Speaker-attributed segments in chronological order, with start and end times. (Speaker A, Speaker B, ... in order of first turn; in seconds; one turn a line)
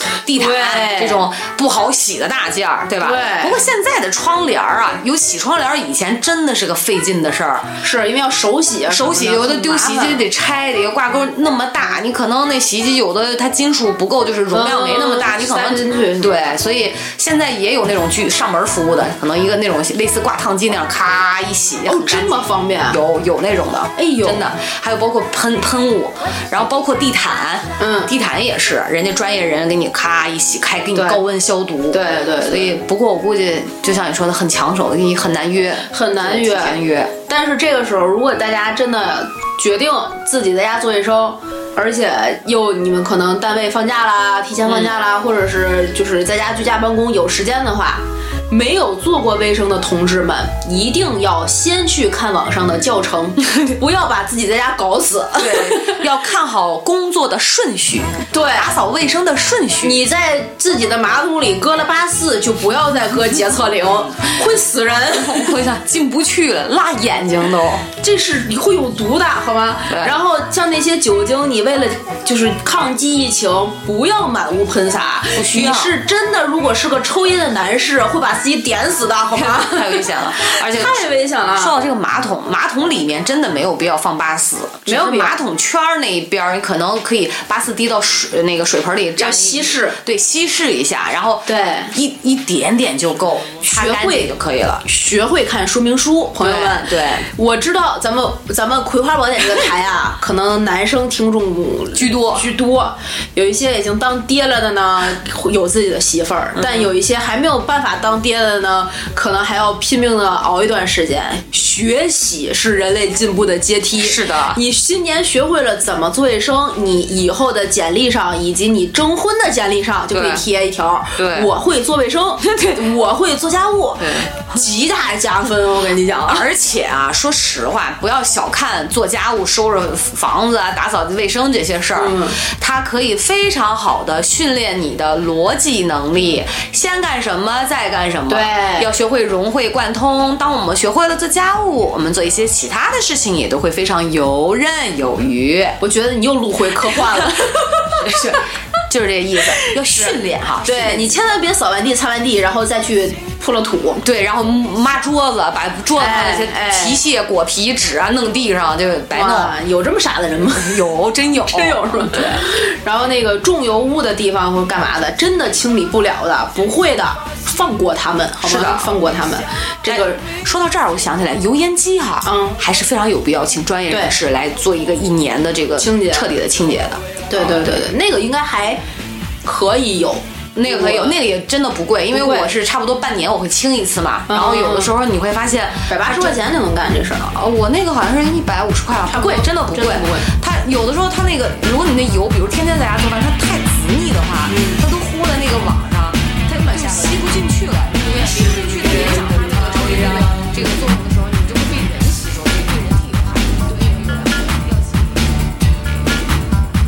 Speaker A: 0.2-7.7
Speaker B: 0.3-1.2
Speaker B: 3.0-3.6
Speaker B: 7.8-10.2
Speaker A: 8.9-37.1
Speaker B: 14.5-16.3
Speaker B: 21.8-23.0
Speaker B: 24.0-24.5
Speaker B: 27.8-28.1
Speaker B: 30.9-31.2
Speaker B: 31.9-32.7
Speaker B: 35.9-56.0
Speaker A: 44.6-44.9
Speaker A: 55.4-60.0
Speaker B: 58.3-58.7
Speaker B: 59.8-65.5
Speaker A: 65.1-67.9
Speaker B: 68.0-81.8
Speaker A: 69.9-70.2
Speaker A: 75.3-75.9
Speaker A: 79.3-81.0
Speaker A: 81.5-94.8
Speaker B: 84.8-85.4
Speaker B: 89.2-90.0
Speaker B: 91.5-91.9
Speaker B: 93.6-94.3
Speaker B: 94.8-126.5
Speaker A: 96.4-97.3
Speaker A: 101.9-102.5
Speaker A: 106.5-106.9
Speaker A: 114.0-114.6
Speaker A: 120.1-120.5
Speaker A: 121.2-121.5
Speaker A: 122.4-122.8
Speaker A: 124.0-124.3
Speaker A: 126.2-145.8
Speaker B: 131.9-132.4
Speaker B: 138.3-138.9
Speaker B: 145.8-148.4
Speaker A: 148.0-151.2
Speaker B: 149.5-154.0
Speaker A: 154.0-159.6
Speaker B: 155.9-157.0
Speaker B: 159.1-160.8
Speaker A: 160.5-162.4
Speaker B: 161.4-170.2
Speaker A: 168.4-168.9
Speaker A: 169.8-177.6
Speaker B: 172.2-172.6
Speaker B: 173.9-174.1
Speaker B: 175.8-176.3
Speaker B: 177.3-178.8
Speaker B: 179.4-181.2
Speaker A: 180.5-186.4
Speaker B: 182.1-182.5
Speaker B: 184.3-184.9
Speaker B: 185.9-187.3
Speaker A: 187.3-205.3
Speaker B: 189.1-190.3
Speaker B: 194.5-194.8
Speaker B: 196.4-197.4
Speaker B: 198.0-200.5